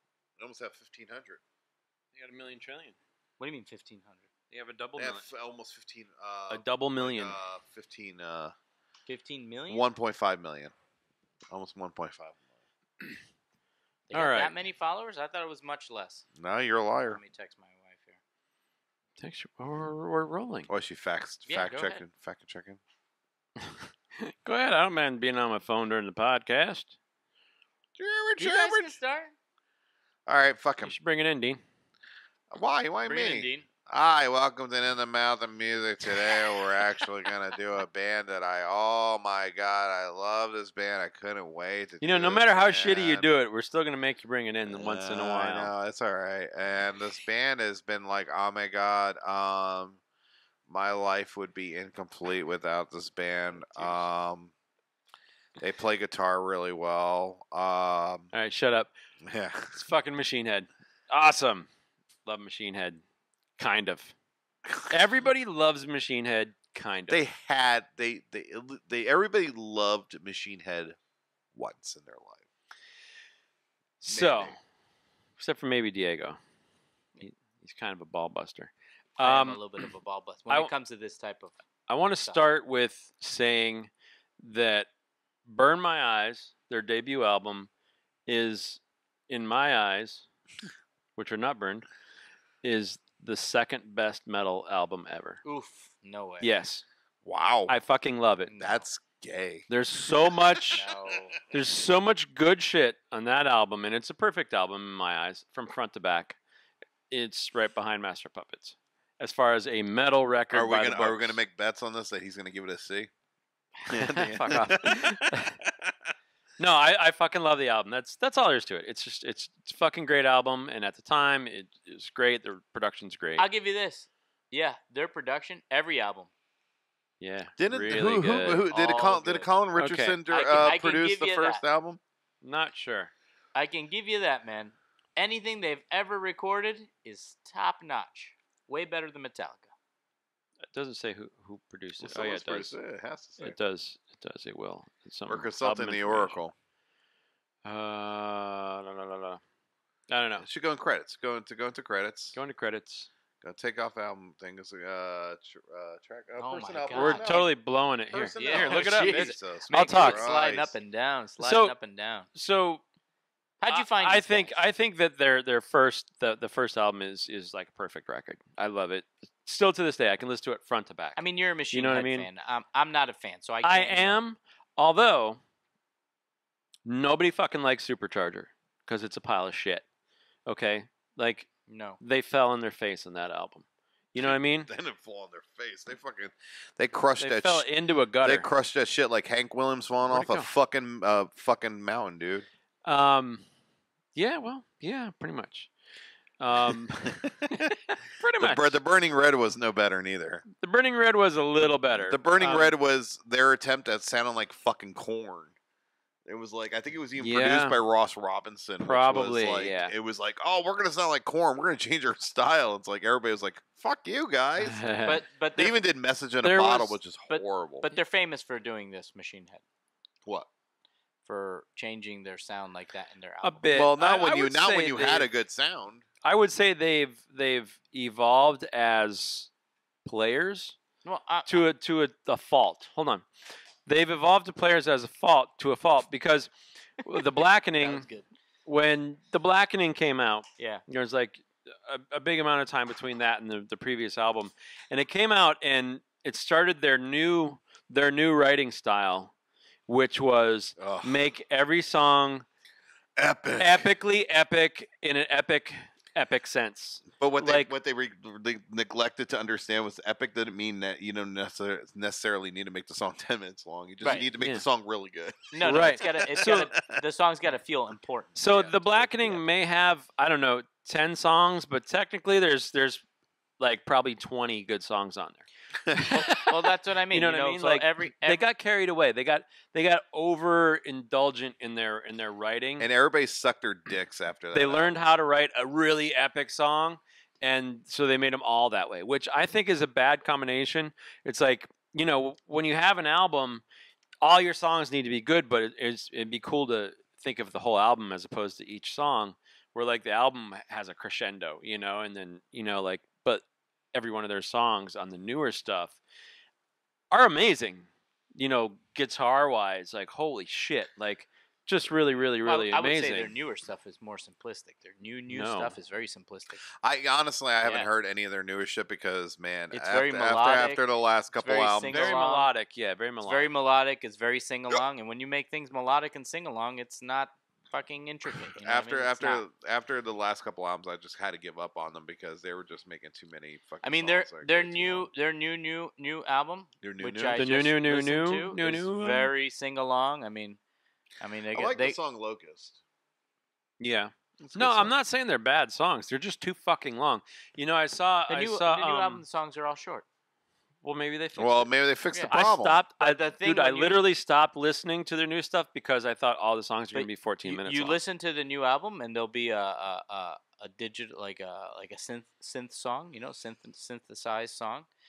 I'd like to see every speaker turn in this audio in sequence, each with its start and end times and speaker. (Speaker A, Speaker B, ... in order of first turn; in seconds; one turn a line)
Speaker A: 0.4-1.4
Speaker B: 2.1-2.9
Speaker C: 3.4-4.3
Speaker B: 4.5-5.3
Speaker A: 5.0-8.5
Speaker B: 6.5-7.4
Speaker C: 9.1-9.9
Speaker A: 9.7-10.7
Speaker A: 11.5-12.4
Speaker C: 14.1-16.2
Speaker B: 14.1-14.5
Speaker A: 16.4-17.2
Speaker C: 17.0-18.2
Speaker B: 19.2-20.7
Speaker A: 20.7-22.8
Speaker C: 21.4-22.0
Speaker B: 23.6-26.9
Speaker A: 28.0-28.9
Speaker C: 28.4-29.3
Speaker A: 30.3-30.9
Speaker B: 30.8-31.6
Speaker A: 32.5-43.3
Speaker C: 33.0-33.6
Speaker B: 42.0-45.7
Speaker A: 44.7-50.0
Speaker A: 50.7-54.5
Speaker B: 53.6-54.0
Speaker A: 55.6-58.3
Speaker B: 58.3-58.9
Speaker A: 59.2-59.7
Speaker B: 59.7-61.7
Speaker B: 62.2-63.0
Speaker B: 63.6-64.1
Speaker B: 64.9-67.2
Speaker A: 67.1-71.0
Speaker A: 71.5-72.4
Speaker B: 74.0-74.5
Speaker A: 74.1-74.5
Speaker B: 75.4-76.4
Speaker B: 77.2-79.9
Speaker C: 79.2-81.5
Speaker B: 81.9-84.9
Speaker B: 85.5-87.7
Speaker B: 88.3-90.2
Speaker B: 91.2-91.8
Speaker B: 92.6-95.4
Speaker C: 95.4-96.5
Speaker B: 96.4-96.8
Speaker A: 97.2-97.7
Speaker B: 97.7-98.6
Speaker C: 98.5-98.8
Speaker A: 98.6-99.7
Speaker B: 99.7-100.8
Speaker C: 100.7-101.4
Speaker B: 101.5-106.4
Speaker B: 107.1-111.4
Speaker A: 110.5-113.1
Speaker A: 113.9-115.1
Speaker B: 113.9-115.5
Speaker A: 115.6-115.9
Speaker B: 116.6-123.5
Speaker C: 123.4-126.3
Speaker B: 127.2-128.7
Speaker A: 127.6-132.0
Speaker C: 128.7-129.5
Speaker B: 129.8-130.7
Speaker C: 130.3-131.6
Speaker B: 132.4-133.1
Speaker C: 133.5-139.7
Speaker B: 140.7-142.7
Speaker A: 142.0-143.6
Speaker B: 143.4-146.4
Speaker A: 145.3-146.5
Speaker B: 147.6-149.4
Speaker B: 150.1-150.4
Speaker A: 150.4-152.4
Speaker B: 152.3-153.1
Speaker A: 153.4-157.5
Speaker C: 156.4-157.4
Speaker B: 156.9-160.3
Speaker A: 158.1-160.7
Speaker C: 158.2-162.3
Speaker B: 161.4-161.7
Speaker B: 162.3-162.8
Speaker C: 163.6-164.6
Speaker B: 163.7-172.3
Speaker C: 171.2-174.2
Speaker B: 173.6-175.4
Speaker B: 176.8-179.8
Speaker B: 180.4-181.5
Speaker C: 181.7-182.0
Speaker B: 182.0-184.7
Speaker A: 184.2-187.7
Speaker B: 187.2-188.5
Speaker A: 188.2-192.4
Speaker B: 190.1-190.5
Speaker B: 192.8-193.4
Speaker B: 194.1-195.7
Speaker B: 196.4-198.7
Speaker A: 196.6-197.7
Speaker A: 198.4-200.4
Speaker B: 200.6-202.7
Speaker A: 202.0-205.5
Speaker A: 206.2-214.8
Speaker B: 207.2-207.8
Speaker B: 208.8-209.9
Speaker B: 214.6-215.2
Speaker C: 215.0-215.8
Speaker A: 215.5-217.9
Speaker B: 216.4-217.0
Speaker C: 217.3-219.6
Speaker C: 221.2-223.8
Speaker B: 223.4-225.3
Speaker A: 223.7-226.0
Speaker B: 226.2-229.5
Speaker B: 230.0-230.8
Speaker C: 231.0-231.6
Speaker B: 231.4-233.2
Speaker B: 233.8-238.1
Speaker C: 237.8-238.2
Speaker B: 238.7-249.3
Speaker C: 240.6-240.8
Speaker B: 249.9-252.4
Speaker A: 250.8-251.2
Speaker A: 253.2-253.9
Speaker B: 253.6-257.7
Speaker A: 257.2-266.6
Speaker B: 264.1-264.6
Speaker C: 265.5-269.4
Speaker B: 265.6-266.7
Speaker B: 268.4-273.0
Speaker B: 273.6-275.4
Speaker A: 275.9-276.1
Speaker B: 276.0-276.5
Speaker C: 276.1-278.4
Speaker B: 277.1-282.9
Speaker A: 282.8-285.0
Speaker B: 284.5-293.6
Speaker B: 294.2-306.0
Speaker B: 307.1-313.3
Speaker C: 312.4-316.6
Speaker B: 315.3-315.8
Speaker A: 316.8-322.0
Speaker C: 317.6-317.9
Speaker C: 319.7-320.8
Speaker C: 321.3-322.5
Speaker B: 321.9-323.5
Speaker C: 323.2-329.4
Speaker A: 328.6-335.1
Speaker C: 333.8-340.6
Speaker A: 336.8-337.4
Speaker B: 337.3-339.3
Speaker C: 341.2-342.0
Speaker A: 341.5-342.8
Speaker B: 343.8-349.2
Speaker A: 344.4-344.9
Speaker C: 348.3-350.0
Speaker B: 350.8-351.7
Speaker A: 351.4-352.8
Speaker B: 352.3-358.0
Speaker C: 353.0-354.0
Speaker C: 356.9-364.9